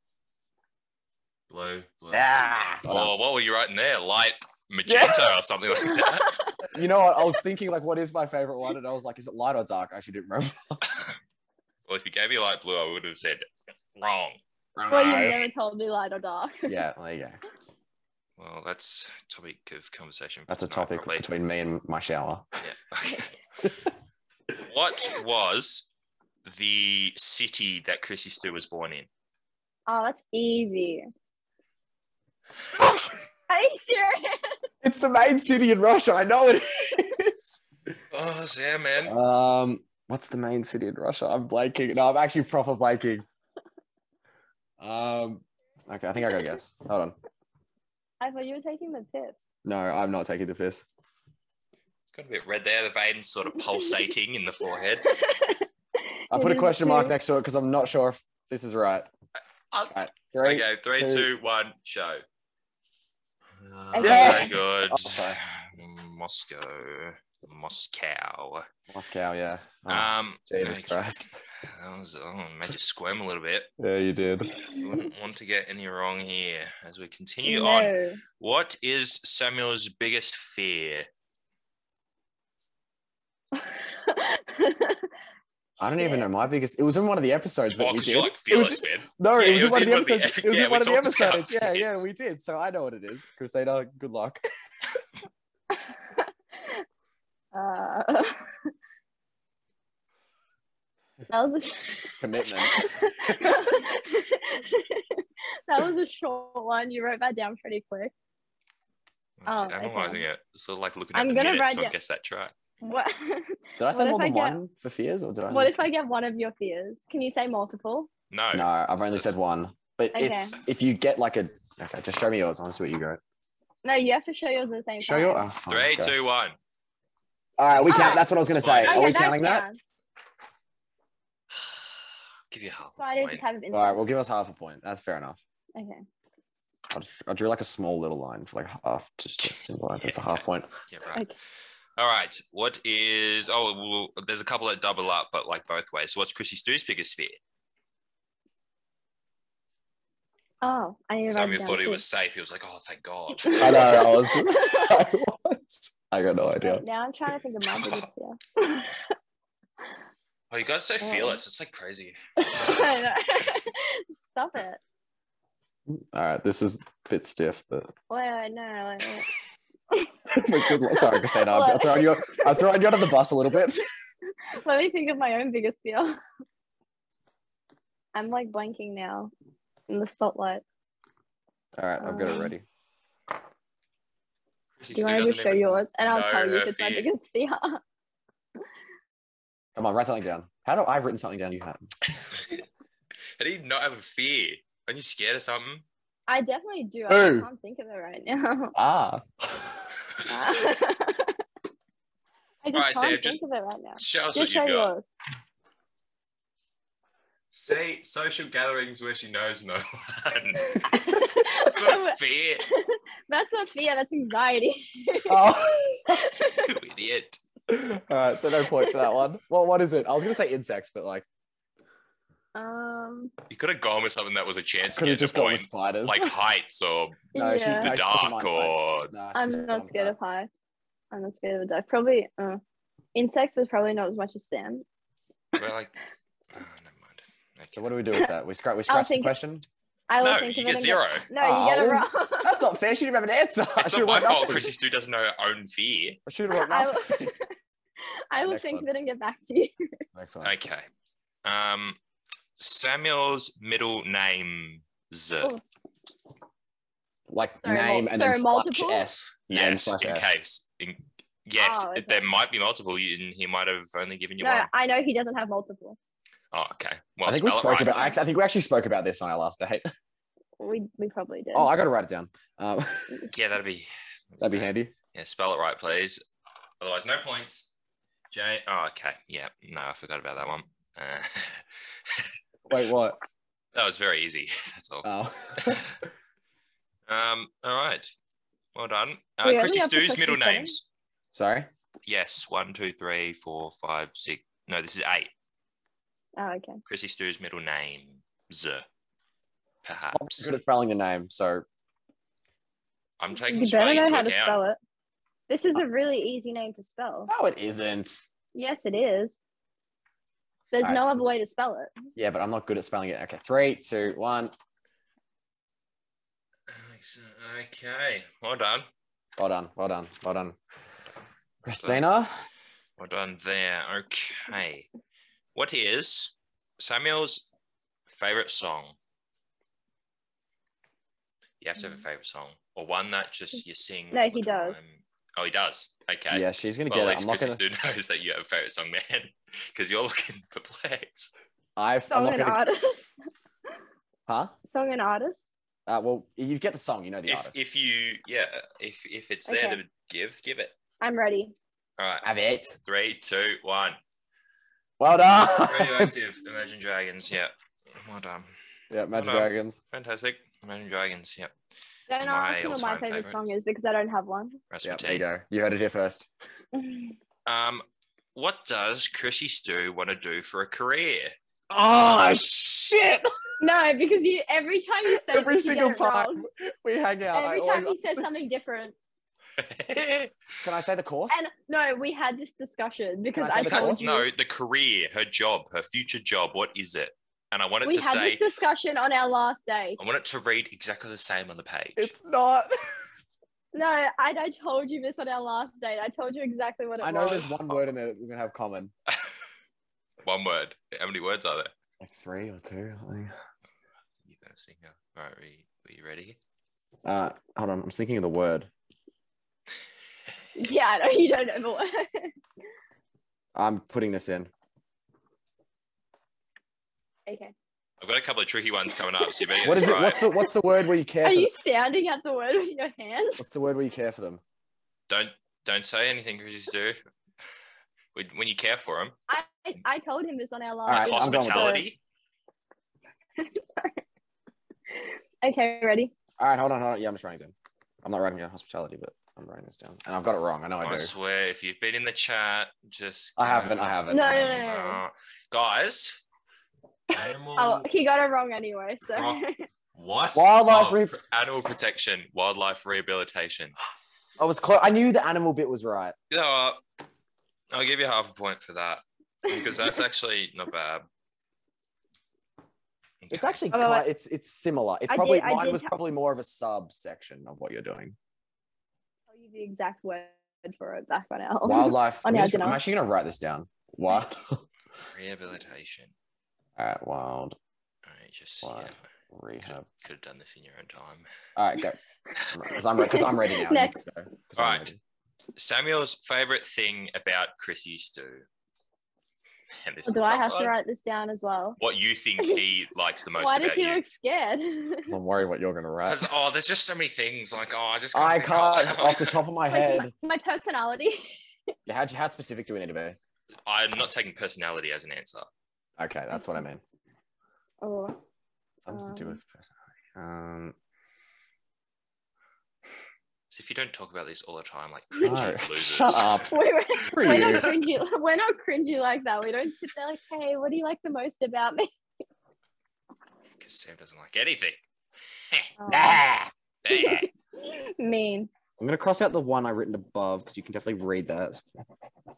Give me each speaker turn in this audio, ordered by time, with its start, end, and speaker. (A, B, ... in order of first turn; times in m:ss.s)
0:01.5-0:06.4 A
0:02.1-0:03.1 B
0:04.8-0:05.3 B
0:05.9-0:06.5 C
0:06.6-0:10.8 B
0:10.9-0:11.2 A
0:11.9-0:14.4 A
0:14.7-0:15.4 B
0:14.9-0:16.8 C
0:16.6-0:17.4 B
0:18.4-0:21.3 A
0:20.5-0:22.5 B
0:22.6-0:23.3 A
0:24.6-0:25.9 A
0:26.4-0:29.1 A
0:29.9-0:31.1 C
0:33.5-0:34.6 C
0:34.8-0:37.6 B
0:38.1-0:39.1 A
0:39.0-0:43.2 B
0:44.8-0:47.2 B
0:48.2-0:49.4 C
0:49.6-0:50.8 B
0:52.1-0:55.1 A
0:55.0-0:57.1 C
0:56.3-0:59.1 B
0:59.7-1:02.2 A
0:59.9-1:01.3 B
1:03.6-1:08.7 A
1:03.9-1:04.6 C
1:04.0-1:05.4 B
1:08.9-1:11.3 B
1:09.9-1:13.7 A
1:13.8-1:14.6 B
1:14.8-1:21.1 A
1:17.4-1:18.2 C
1:23.5-1:25.1 C
1:25.8-1:34.4 B
1:26.0-1:26.3 C
1:27.7-1:32.0 A
1:35.7-1:36.8 C
1:37.5-1:38.4 C
1:41.3-1:48.1 C
1:42.2-1:43.6 B
1:49.4-1:52.5 A
1:49.5-1:50.2 C
1:51.1-1:51.9 C
1:52.8-1:54.6 C
1:53.8-1:55.8 B
1:55.5-1:58.1 C
1:58.3-1:59.3 A
1:58.5-2:03.2 B
2:00.1-2:00.6 C
2:03.8-2:05.4 C
2:05.0-2:06.1 B
2:05.7-2:06.6 A
2:07.6-2:09.7 B
2:07.7-2:09.2 A
2:07.9-2:08.2 C
2:08.8-2:09.8 C
2:11.5-2:11.9 A
2:12.5-2:13.4 A
2:13.0-2:14.0 C
2:13.7-2:15.4 B
2:15.7-2:16.0 C
2:16.9-2:20.7 B
2:19.4-2:21.2 A
2:22.0-2:27.4 A
2:30.6-2:32.0 C
2:31.3-2:34.0 A
2:33.4-2:35.0 C
2:33.6-2:36.8 B
2:36.6-2:39.0 C
2:37.7-2:38.1 A
2:40.5-2:42.8 A
2:41.0-2:41.4 C
2:42.4-2:44.8 C
2:45.9-2:47.9 B
2:48.1-2:49.3 C
2:49.9-2:52.7 C
2:50.3-2:53.8 B
2:54.5-2:56.2 C
2:58.1-2:59.3 C
2:59.9-3:00.6 C
3:01.8-3:02.6 B
3:02.0-3:02.5 C
3:04.8-3:07.1 A
3:04.9-3:07.8 C
3:09.7-3:11.9 B
3:12.3-3:12.6 A
3:13.4-3:15.8 A
3:16.3-3:18.7 C
3:17.1-3:17.5 B
3:18.7-3:19.8 B
3:20.3-3:21.4 C
3:22.6-3:25.1 C
3:22.7-3:23.4 A
3:24.0-3:24.9 A
3:27.5-3:30.8 A
3:30.7-3:35.5 C
3:31.5-3:32.6 A
3:35.3-3:36.2 B
3:36.1-3:36.7 C
3:36.5-3:37.4 A
3:37.7-3:41.2 B
3:38.8-3:39.0 C
3:42.5-3:43.3 C
3:43.5-3:49.1 A
3:44.9-3:46.3 B
3:47.3-3:47.9 C
3:47.3-3:50.1 B
3:49.3-3:50.5 C
3:51.1-3:52.6 C
3:53.1-3:54.8 C
3:55.5-3:55.9 A
3:56.5-3:57.8 A
3:57.7-3:59.6 B
3:58.9-3:59.3 C
4:00.1-4:02.6 C
4:00.2-4:01.3 A
4:01.4-4:04.8 B
4:03.8-4:06.2 A
4:06.2-4:07.3 B
4:06.5-4:07.5 C
4:08.3-4:10.0 C
4:08.3-4:08.9 B
4:10.1-4:10.5 B
4:10.4-4:10.9 A
4:11.4-4:12.0 A
4:12.6-4:15.5 A
4:17.3-4:20.2 B
4:17.6-4:19.0 C
4:19.5-4:24.7 A
4:21.6-4:22.2 C
4:24.4-4:26.0 C
4:26.5-4:28.0 A
4:27.2-4:29.9 B
4:27.8-4:28.2 C
4:30.6-4:31.7 C
4:31.5-4:33.3 B
4:33.3-4:36.2 A
4:34.4-4:34.9 B
4:36.8-4:37.7 A
4:38.3-4:42.3 A
4:42.7-4:43.2 B
4:43.7-4:46.0 A
4:45.0-4:45.8 B
4:47.1-4:48.1 A
4:48.7-4:50.8 A
4:49.4-4:50.7 C
4:51.3-4:51.7 B
4:52.0-4:55.3 A
4:56.4-4:56.8 C
4:56.9-4:58.8 A
4:59.8-5:00.5 A
5:00.1-5:01.6 B
5:03.2-5:04.6 A
5:03.4-5:04.8 C
5:05.5-5:07.3 C
5:07.3-5:08.2 B
5:08.5-5:09.4 C
5:10.7-5:11.9 C
5:10.8-5:11.2 B
5:12.2-5:14.5 B
5:16.7-5:18.9 A
5:19.4-5:20.6 B
5:21.6-5:22.3 B
5:21.8-5:22.0 A
5:23.0-5:24.9 A
5:25.5-5:27.5 A
5:28.1-5:29.0 A
5:31.6-5:41.3 A
5:34.1-5:34.8 C
5:36.3-5:37.6 B
5:41.8-5:42.6 B
5:42.1-5:43.1 C
5:44.3-5:44.5 B
5:44.7-5:45.4 C
5:45.9-5:47.6 B
5:47.3-5:50.7 A
5:49.5-5:49.8 C
5:51.0-5:51.5 C
5:52.0-5:52.2 A
5:52.2-5:52.8 B
5:52.8-5:54.0 A
5:55.0-5:56.1 B
5:55.6-5:58.5 A
5:58.9-5:59.8 B
5:59.1-6:01.5 A
6:02.1-6:04.6 C
6:02.2-6:03.5 A
6:04.7-6:05.2 A
6:04.8-6:06.3 B
6:06.7-6:07.1 C
6:07.4-6:07.8 A
6:08.3-6:11.3 A
6:11.7-6:13.3 B
6:13.6-6:16.4 C
6:15.1-6:18.3 B
6:17.3-6:18.9 C
6:19.6-6:20.4 A
6:20.6-6:21.4 B
6:21.3-6:24.2 C
6:23.3-6:24.0 B
6:23.6-6:28.4 A
6:27.8-6:30.0 C
6:30.0-6:32.1 A
6:32.0-6:32.7 B
6:33.7-6:37.5 C
6:37.0-6:38.9 B
6:39.1-6:39.3 A
6:40.2-6:41.7 A
6:42.0-6:43.3 B
6:44.2-6:46.4 A
6:47.0-6:48.7 B
6:50.6-6:52.3 C
6:53.5-6:54.5 B
6:57.3-6:57.5 C
6:58.0-7:00.3 A
6:59.3-6:59.8 C
6:59.6-7:01.5 B
7:01.2-7:03.4 C
7:03.4-7:04.4 B
7:05.1-7:07.0 A
7:08.1-7:09.2 A
7:09.3-7:11.8 C
7:10.9-7:11.8 B
7:10.9-7:12.0 A
7:13.4-7:14.0 C
7:14.9-7:16.1 C
7:16.4-7:21.1 B
7:20.8-7:26.2 A
7:23.4-7:24.6 B
7:24.1-7:25.0 C
7:27.1-7:27.8 A
7:27.6-7:29.6 C
7:29.1-7:29.4 A
7:29.9-7:33.7 A
7:30.3-7:31.2 B
7:34.4-7:36.1 B
7:36.3-7:36.8 A
7:37.7-7:41.0 A
7:43.2-7:43.6 A
7:43.3-7:48.2 B
7:43.7-7:44.1 C
7:45.1-7:45.9 C
7:49.3-7:52.8 C
7:51.6-7:54.6 B
7:55.1-7:56.1 A
7:56.8-7:57.6 B
7:58.0-7:59.1 A
7:58.6-7:59.8 B
7:59.6-8:01.3 A
8:01.6-8:02.0 B
8:02.5-8:05.0 B
8:03.0-8:04.0 C
8:04.6-8:04.9 A
8:05.6-8:08.4 A
8:09.8-8:10.7 A
8:10.0-8:11.8 C
8:11.8-8:14.0 A
8:13.4-8:15.2 C
8:15.1-8:16.2 B
8:16.0-8:19.4 A
8:18.1-8:20.1 B
8:19.7-8:21.3 C
8:21.8-8:23.2 B
8:23.6-8:25.5 A
8:26.0-8:26.8 B
8:26.3-8:26.6 C
8:27.8-8:28.2 C
8:28.8-8:30.8 B
8:28.9-8:29.4 C
8:33.5-8:36.5 A
8:35.2-8:37.8 B
8:36.4-8:41.9 C
8:37.2-8:37.7 A
8:43.6-8:44.8 A
8:45.3-8:45.7 A
8:45.8-8:46.2 C
8:45.9-8:46.5 B
8:46.8-8:47.2 A
8:46.9-8:48.5 C
8:48.8-8:51.6 B